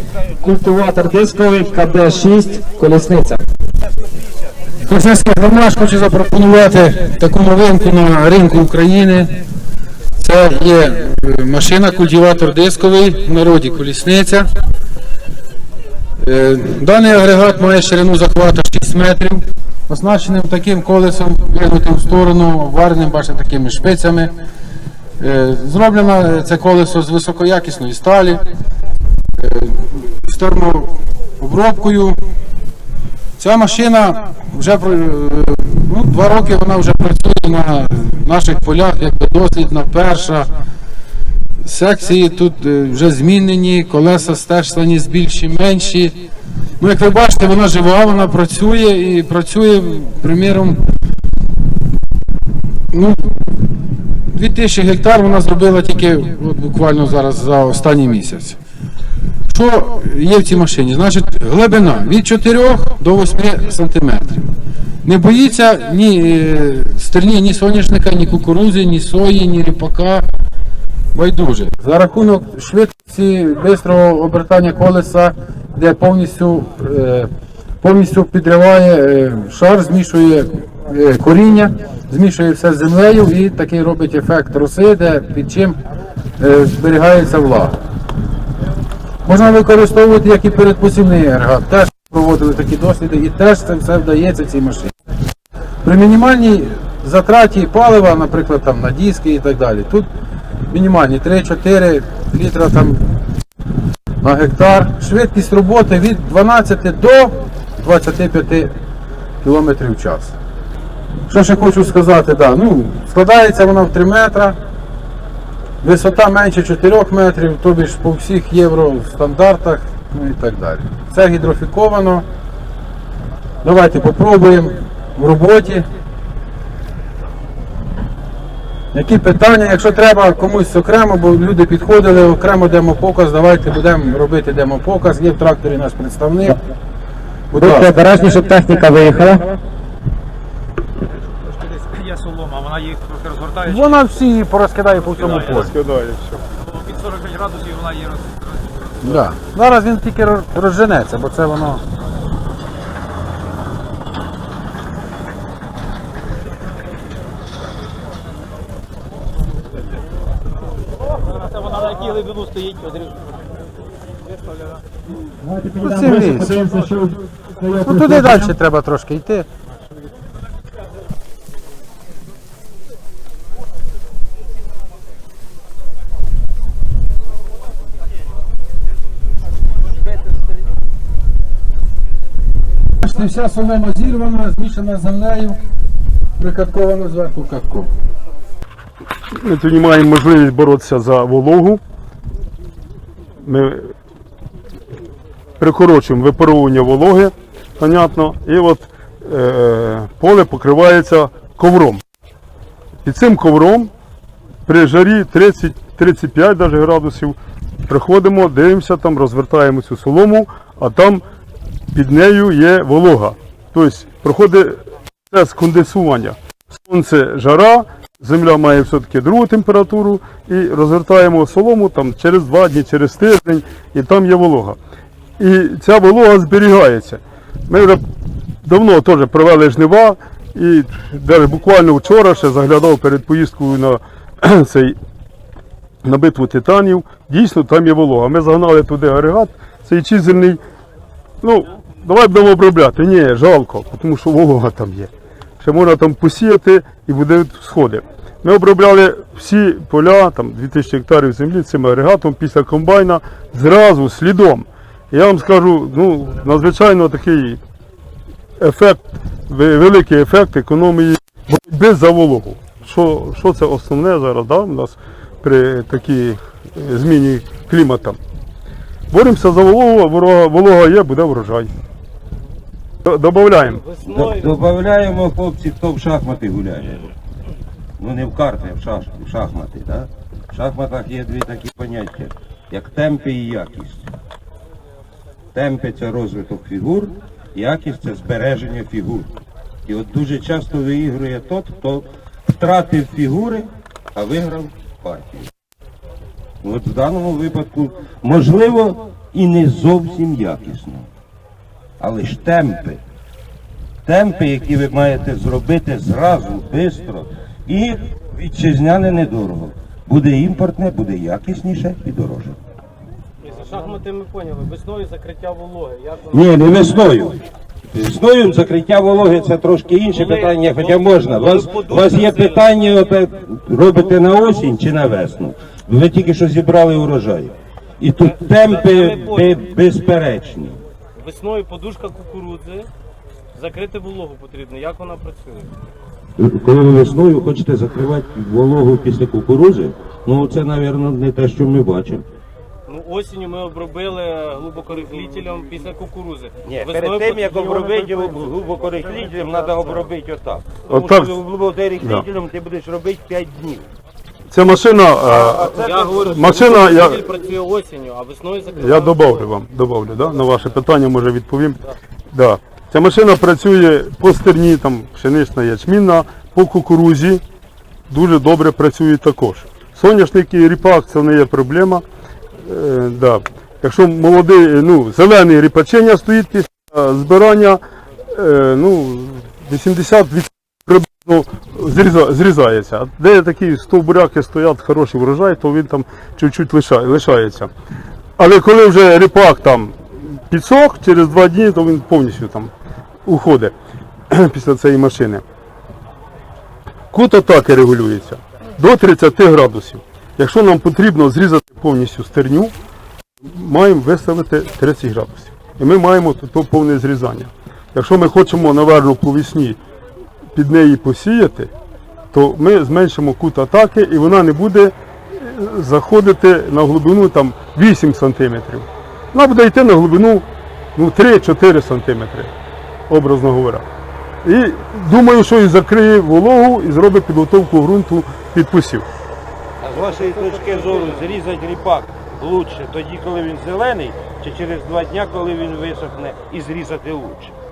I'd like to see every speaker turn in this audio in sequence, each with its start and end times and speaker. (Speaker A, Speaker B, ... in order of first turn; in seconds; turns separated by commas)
Speaker A: 0.4-3.4, Speaker B: 4.8-9.4, Speaker B: 10.2-14.5, Speaker B: 16.2-24.3, Speaker B: 25.2-28.4, Speaker B: 29.4-32.2, Speaker B: 33.4-40.5, Speaker B: 41.6-46.2, Speaker B: 46.8-50.8, Speaker B: 52.9-53.3, Speaker B: 54.3-58.6, Speaker B: 59.5-64.5, Speaker B: 65.0-70.2, Speaker B: 71.1-77.3, Speaker B: 77.8-85.8, Speaker B: 86.4-87.7, Speaker B: 89.2-94.9, Speaker B: 95.8-100.1, Speaker B: 100.7-103.2, Speaker B: 104.2-108.7, Speaker B: 109.4-110.3, Speaker B: 111.3-114.6, Speaker B: 115.8-122.2, Speaker B: 123.6-125.9, Speaker B: 128.9-136.6, Speaker B: 137.5-138.5, Speaker A: 137.5-139.4, Speaker C: 141.4-144.0, Speaker B: 143.6-145.7, Speaker C: 145.2-145.7, Speaker D: 145.2-146.4, Speaker C: 146.6-149.2, Speaker B: 149.0-151.8, Speaker C: 161.3-163.3, Speaker A: 165.4-168.5, Speaker B: 165.8-166.7, Speaker B: 167.7-169.5, Speaker B: 183.0-185.6, Speaker B: 186.4-187.9, Speaker D: 189.4-191.8, Speaker D: 193.4-193.9, Speaker D: 195.6-202.0, Speaker D: 203.0-203.9, Speaker D: 204.7-207.4, Speaker D: 207.9-211.2, Speaker D: 211.9-224.8, Speaker D: 225.4-228.0, Speaker D: 228.7-235.0, Speaker D: 236.1-240.6, Speaker D: 241.4-257.6, Speaker D: 258.6-268.2, Speaker D: 269.1-271.7, Speaker D: 273.1-273.8, Speaker C: 273.7-274.6, Speaker E: 274.0-277.1, Speaker E: 278.0-284.1, Speaker E: 285.6-289.3, Speaker E: 289.9-295.5, Speaker E: 296.6-301.1, Speaker E: 302.0-303.0, Speaker E: 304.1-312.6, Speaker C: 313.4-316.6, Speaker E: 316.3-317.4, Speaker E: 317.9-330.8, Speaker C: 320.1-322.7, Speaker C: 328.2-329.8, Speaker C: 331.2-332.9, Speaker C: 333.6-335.7, Speaker E: 336.4-342.2, Speaker C: 342.9-350.0, Speaker E: 346.6-353.9, Speaker D: 350.9-351.3, Speaker D: 354.5-357.2, Speaker C: 355.4-359.5, Speaker E: 355.7-356.2, Speaker D: 358.7-361.8, Speaker D: 362.3-367.4, Speaker D: 368.1-372.0, Speaker D: 372.6-387.7, Speaker D: 388.4-392.7, Speaker D: 393.3-393.7, Speaker D: 394.3-395.4, Speaker D: 397.1-402.7, Speaker D: 403.5-409.8, Speaker D: 410.6-411.7, Speaker D: 412.3-420.4, Speaker D: 421.0-422.5, Speaker D: 423.1-423.9, Speaker D: 424.4-429.1, Speaker E: 429.8-437.5, Speaker C: 429.9-431.4